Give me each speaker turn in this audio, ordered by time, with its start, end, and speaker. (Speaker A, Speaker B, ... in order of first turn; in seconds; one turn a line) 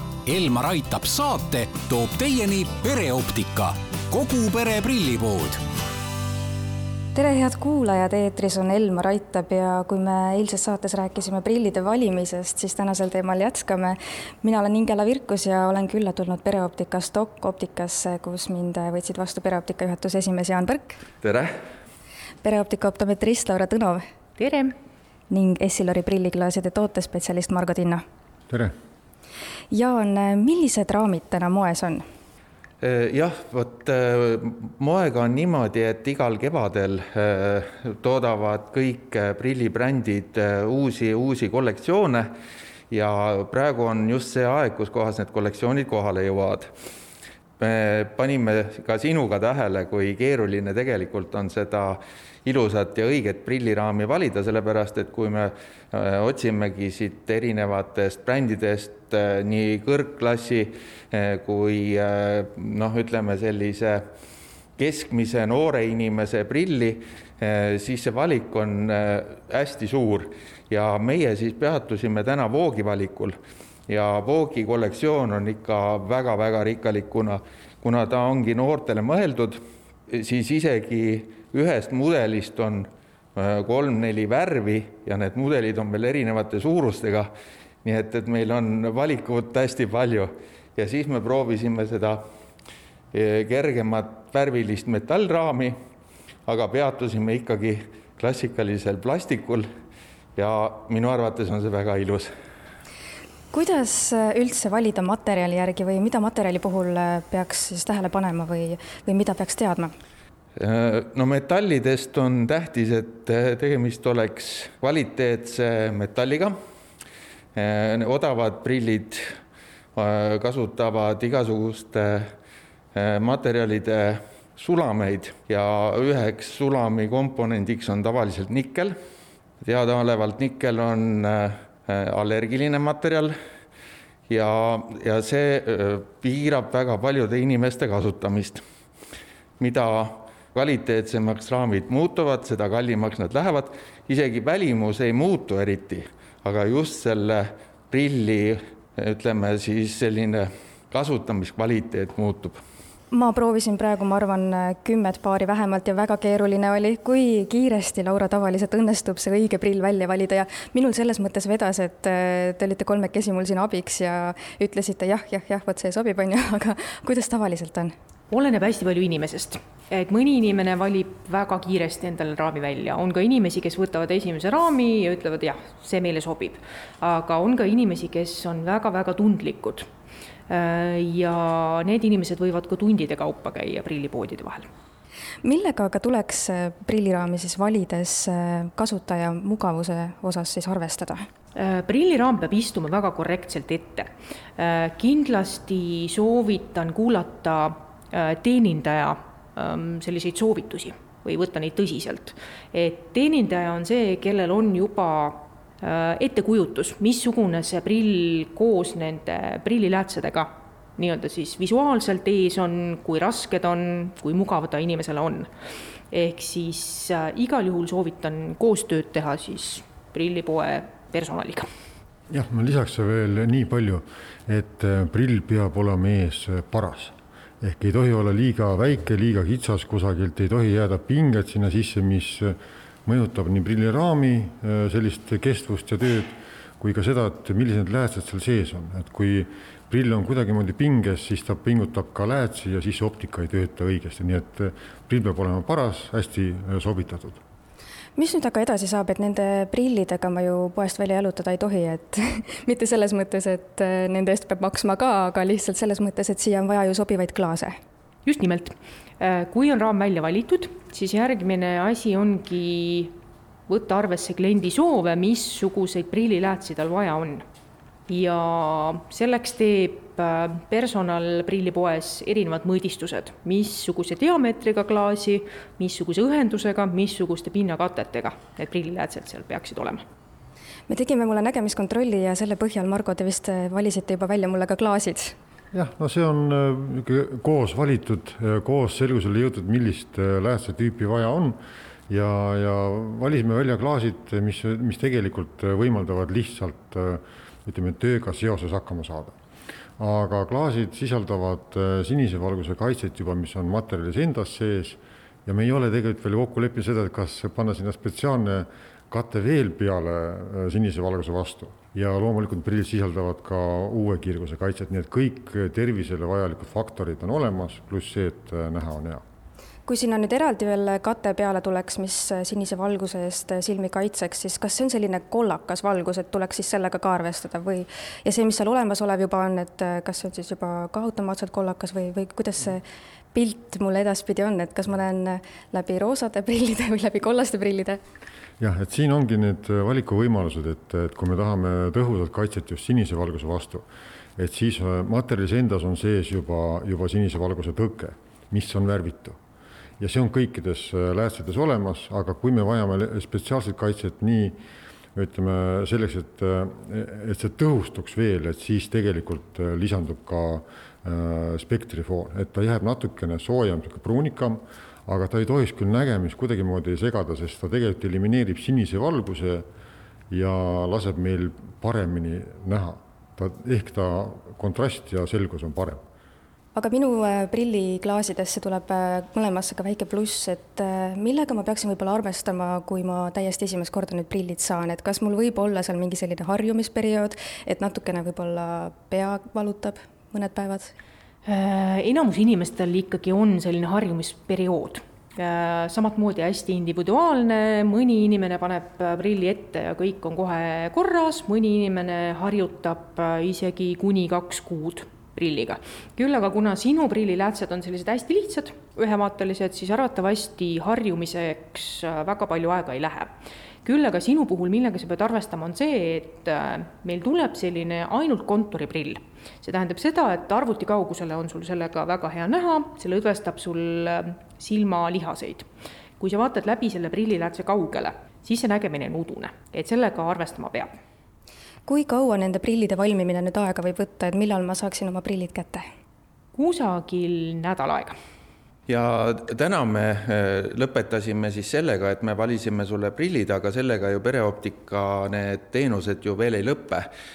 Speaker A: 0.2-5.6
Speaker B: 7.1-21.0
Speaker C: 21.2-21.5
Speaker B: 22.4-24.0
Speaker D: 24.4-24.7
Speaker B: 25.3-28.0
Speaker B: 29.7-32.0
Speaker C: 32.8-42.3
Speaker C: 42.9-46.7
Speaker C: 47.6-64.0
Speaker C: 64.8-73.3
Speaker C: 73.9-79.6
Speaker C: 80.1-87.3
Speaker C: 87.8-92.2
Speaker C: 93.1-95.7
Speaker C: 96.5-99.6
Speaker C: 100.4-102.3
Speaker B: 103.5-109.9
Speaker C: 110.6-116.5
Speaker C: 117.5-119.2
Speaker C: 120.0-122.2
Speaker C: 122.9-128.9
Speaker C: 129.6-133.3
Speaker C: 134.3-138.6
Speaker C: 139.6-152.6
Speaker B: 153.1-167.9
Speaker D: 168.3-179.8
Speaker D: 180.5-184.7
Speaker B: 185.4-191.2
Speaker D: 191.6-215.5
Speaker D: 216.1-221.7
Speaker E: 222.3-247.4
Speaker B: 248.2-257.8
Speaker D: 258.2-263.1
Speaker D: 263.7-267.4
Speaker D: 268.1-280.0
Speaker B: 280.9-285.4
Speaker E: 285.7-291.6
Speaker E: 292.1-299.3
Speaker E: 300.0-319.2
Speaker B: 319.9-338.0
Speaker E: 338.6-343.9
Speaker E: 344.4-349.4
Speaker E: 350.0-354.6
Speaker E: 355.1-369.6
Speaker E: 370.3-376.0
Speaker B: 376.7-390.9
Speaker D: 391.4-425.6
Speaker D: 426.2-430.9
Speaker B: 431.9-435.8
Speaker D: 436.5-438.1
Speaker C: 438.9-447.1